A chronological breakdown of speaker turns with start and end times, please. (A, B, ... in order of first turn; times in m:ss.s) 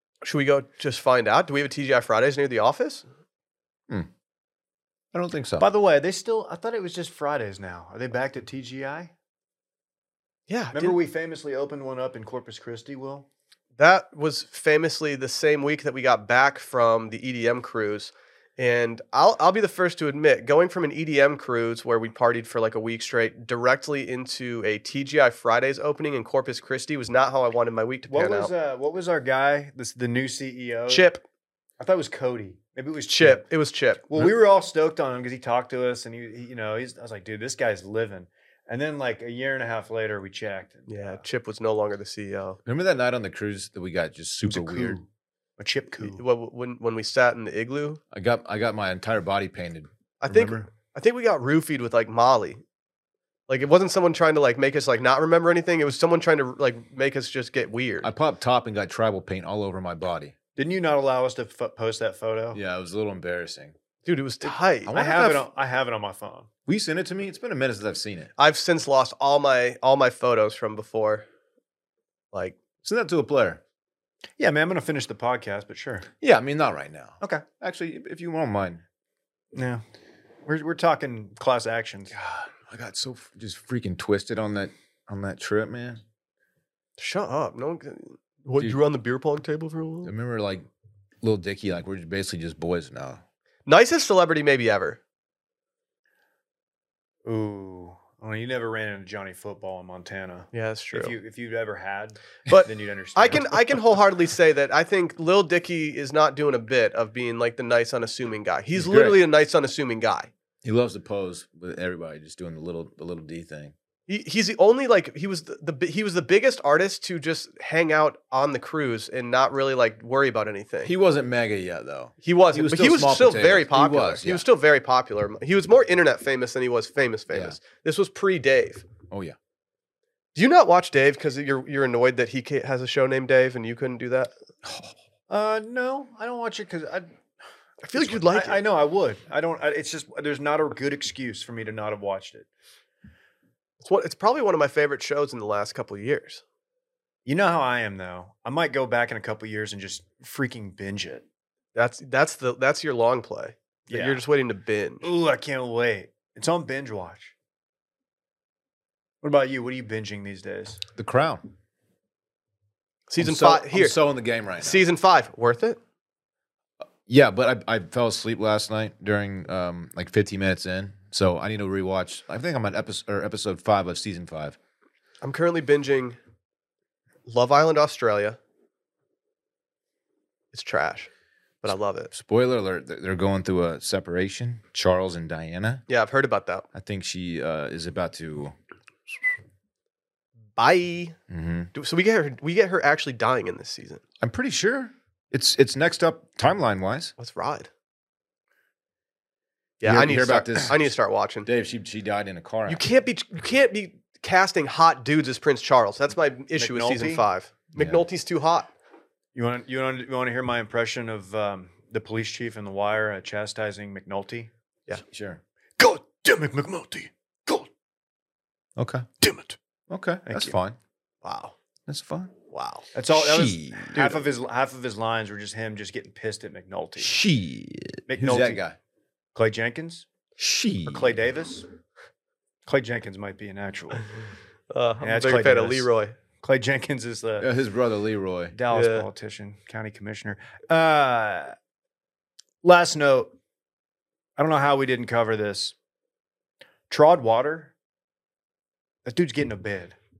0:00.2-0:03.0 A
0:05.1-0:05.6 B
0:05.6-0:09.1 C
0:10.5-0:11.0 A
0:10.7-0:13.3 C
0:13.8-0:28.5 A
0:28.1-0:31.1 C
0:30.9-0:31.2 A
0:31.8-0:33.5 C
0:33.1-0:34.1 A
0:34.1-0:41.2 C
0:40.9-0:42.6 A
0:42.6-0:45.0 B
0:44.4-0:45.0 C
0:45.6-0:46.2 C
0:46.0-0:48.0 A
0:48.1-0:50.6 B
0:50.2-0:52.6 A
0:53.5-0:58.1 A
0:58.0-1:00.3 B
1:00.6-1:02.6 C
1:02.5-1:03.7 B
1:04.0-1:05.0 A
1:04.8-1:05.4 B
1:04.9-1:06.5 C
1:06.7-1:08.3 B
1:08.4-1:11.2 A
1:12.8-1:13.6 B
1:14.4-1:16.1 C
1:16.2-1:18.8 B
1:19.5-1:19.8 C
1:20.4-1:22.1 C
1:22.1-1:26.0 B
1:27.0-1:30.1 A
1:30.0-1:30.6 B
1:31.2-1:33.2 B
1:33.6-1:35.0 A
1:37.2-1:43.5 C
1:40.5-1:41.1 A
1:42.5-1:50.3 A
1:48.8-1:49.2 B
1:50.6-1:53.7 B
1:54.1-2:00.9 A
2:00.8-2:04.4 B
2:02.2-2:08.9 A
2:07.3-2:07.6 B
2:09.1-2:09.4 B
2:10.3-2:14.3 A
2:14.6-2:14.9 B
2:15.3-2:17.1 C
2:17.8-2:18.6 A
2:17.9-2:22.5 C
2:23.8-2:26.4 A
2:27.2-2:31.2 C
2:31.7-2:35.1 A
2:33.9-2:34.2 C
2:35.0-2:37.3 C
2:39.2-2:40.8 C
2:41.0-2:41.5 B
2:43.1-2:44.0 A
2:43.2-2:44.8 B
2:44.6-2:45.8 A
2:47.0-2:54.6 B
2:55.2-2:56.2 A
2:57.2-2:58.4 A
3:00.5-3:01.1 A
3:01.6-3:02.1 A
3:02.1-3:05.8 B
3:05.9-3:06.6 A
3:06.7-3:08.5 B
3:10.6-3:11.2 A
3:11.3-3:11.7 B
3:11.7-3:14.0 A
3:14.2-3:17.1 B
3:17.2-3:17.7 A
3:19.8-3:21.5 A
3:19.8-3:20.9 B
3:21.4-3:22.8 B
3:22.7-3:28.7 A
3:26.6-3:27.2 C
3:27.8-3:28.0 B
3:29.3-3:34.5 C
3:35.0-3:35.4 B
3:35.8-3:37.7 C
3:38.8-3:39.1 B
3:39.2-3:39.6 C
3:39.9-3:40.8 B
3:40.2-3:40.5 C
3:41.2-3:41.6 A
3:41.9-3:42.3 B
3:42.5-3:42.8 A
3:42.9-3:47.2 C
3:43.1-3:44.2 B
3:47.0-3:48.8 B
3:48.1-3:48.6 C
3:49.3-3:50.0 C
3:50.4-3:51.2 B
3:50.8-3:51.7 C
3:52.6-3:54.1 C
3:54.7-3:56.1 A
3:55.0-3:55.9 C
3:56.4-3:57.5 C
3:57.4-3:58.5 B
3:58.5-4:01.5 C
3:58.7-3:59.1 A
4:02.6-4:03.3 C
4:04.4-4:05.7 C
4:06.9-4:07.7 C
4:09.0-4:10.0 C